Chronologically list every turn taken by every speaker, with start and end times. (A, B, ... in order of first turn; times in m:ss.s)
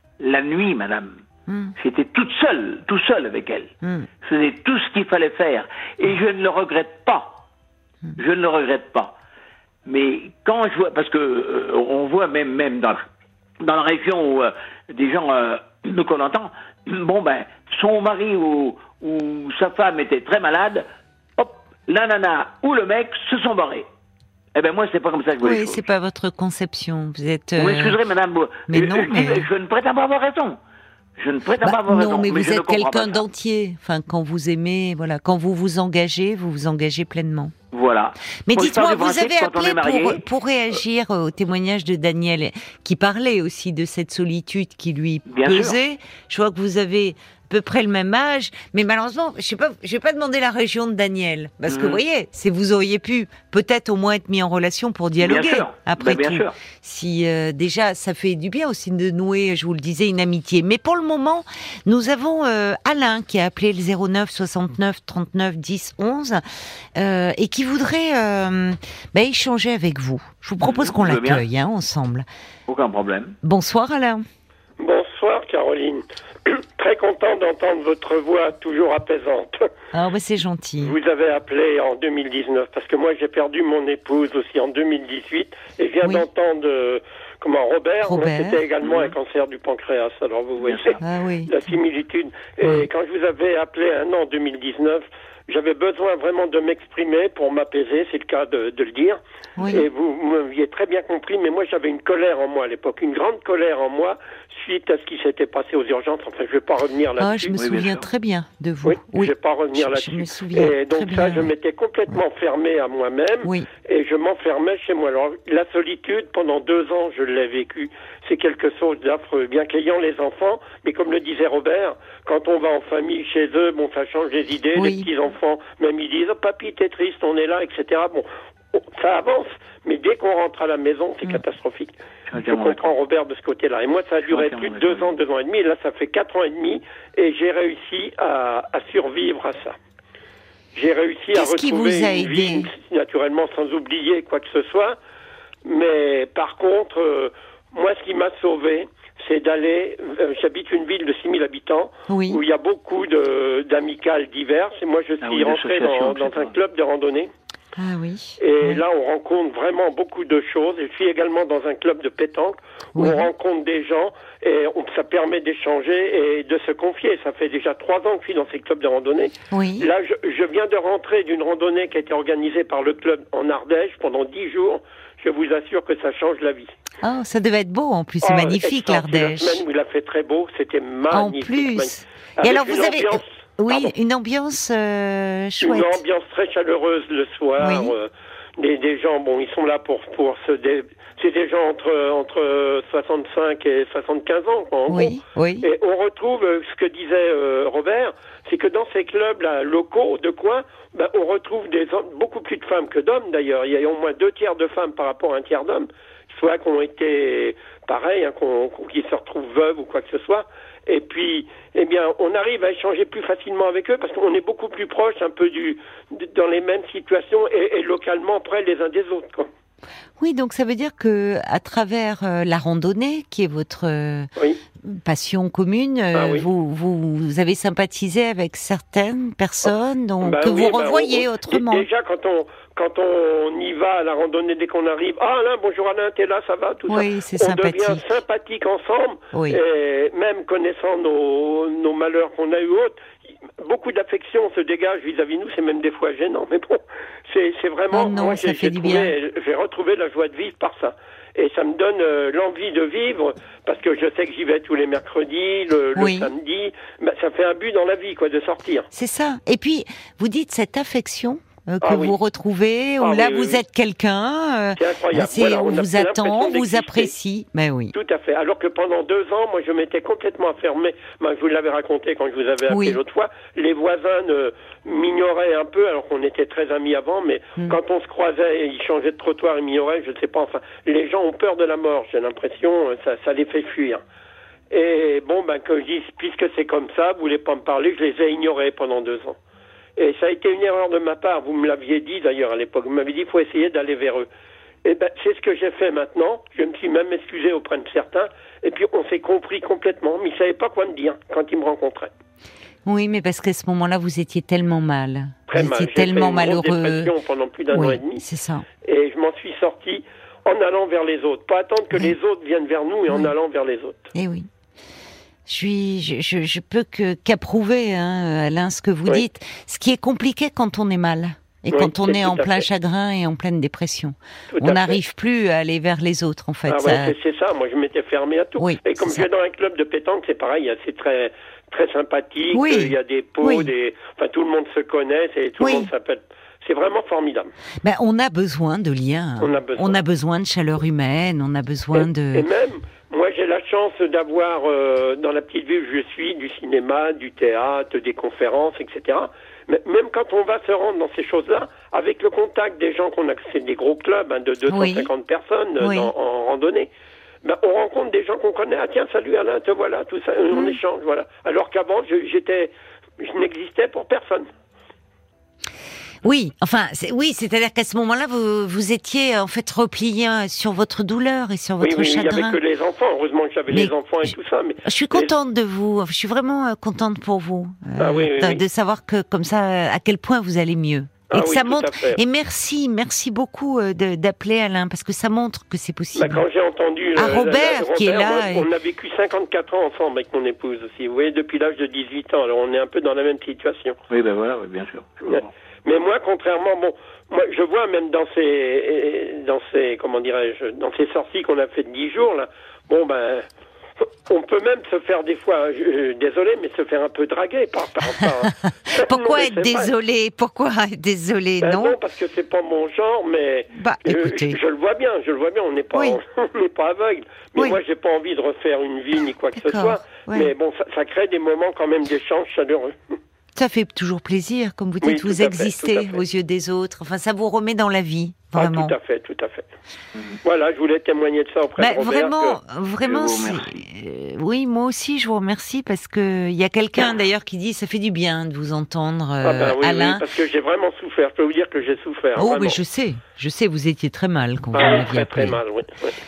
0:00.2-0:01.2 A
0:01.5-0:01.7 B
0:01.8-0:07.4 A
0:03.8-0:04.1 B
0:08.2-0:09.2 A
0:09.8-0:13.1 A
0:13.6-0:20.8 A
0:21.4-0:23.9 A
0:24.5-0:25.8 A
0:25.4-0:28.0 B
0:27.6-0:30.6 A
0:28.7-0:29.5 B
0:31.2-0:33.2 A
0:31.6-0:37.5 B
0:37.7-0:40.2 A
0:38.5-1:06.4 B
0:45.3-0:45.8 A
0:51.6-0:52.0 A
0:55.2-0:56.6 A
1:07.0-1:12.3 B
1:10.6-1:11.4 A
1:12.7-1:13.4 A
1:13.4-1:14.2 B
1:14.8-1:19.7 C
1:19.9-1:20.9 B
1:20.8-1:47.6 C
1:28.0-1:28.6 B
1:30.6-1:31.0 A
1:31.0-1:31.5 B
1:39.6-1:39.8 B
1:47.2-1:51.5 B
1:47.6-1:48.0 A
1:48.8-2:19.8 C
2:04.8-2:05.1 B
2:12.3-2:12.9 A
2:14.2-2:15.1 A
2:20.7-2:25.0 C
2:21.3-2:22.7 B
2:25.6-2:37.3 C
2:32.1-2:32.4 B
2:35.2-2:36.6 A
2:37.8-2:38.8 B
2:38.4-2:56.7 C
2:43.0-2:43.3 B
2:49.5-2:49.9 B
2:57.0-2:59.6 B
2:58.2-3:03.9 C
3:01.1-3:06.0 B
3:05.6-3:39.5 C
3:07.6-3:07.9 B
3:14.9-3:15.6 B
3:40.2-3:44.3 B
3:44.8-3:51.8 B
3:46.1-3:46.4 C
3:50.2-4:03.0 C
3:56.9-3:58.0 B
3:59.3-3:59.6 B
4:03.6-4:18.9 C
4:07.9-4:09.1 B
4:16.0-4:16.3 B
4:18.9-4:27.9 B
4:21.8-4:22.1 C
4:23.0-4:23.6 C
4:24.8-4:27.1 C
4:27.9-4:44.0 C
4:32.7-4:33.0 B
4:44.7-4:49.4 C
4:50.0-4:54.2 C
4:54.8-5:02.1 C
5:02.8-5:07.1 B
5:05.5-5:08.2 C
5:07.7-5:08.6 B
5:08.8-5:14.1 C
5:14.1-5:14.5 B
5:15.5-5:27.1 B
5:21.7-5:22.6 C
5:24.5-5:25.0 C
5:26.7-5:37.5 C
5:28.6-5:29.2 B
5:32.5-5:33.7 B
5:35.6-5:35.9 B
5:37.8-5:42.4 B
5:39.4-5:40.0 C
5:42.0-5:56.9 C
5:54.7-5:55.1 B
5:55.8-5:56.1 B
5:57.4-6:04.5 C
6:00.5-6:00.8 B
6:06.2-6:12.6 B
6:11.8-6:15.3 C
6:13.7-6:26.4 B
6:18.0-6:18.6 C
6:21.3-6:22.2 C
6:26.1-6:34.0 C
6:27.2-6:28.6 B
6:34.1-6:35.5 A
6:35.3-6:43.4 C
6:44.3-6:49.9 C
6:48.1-6:52.0 B
6:51.6-7:03.0 C
6:53.7-6:54.6 B
6:59.6-7:00.5 B
7:03.6-7:08.9 B
7:05.0-7:06.2 C
7:08.5-7:09.7 C
7:10.4-7:12.6 C
7:11.8-7:20.2 B
7:13.0-7:13.8 A
7:19.4-7:22.8 C
7:22.4-7:25.6 B
7:24.7-7:26.1 C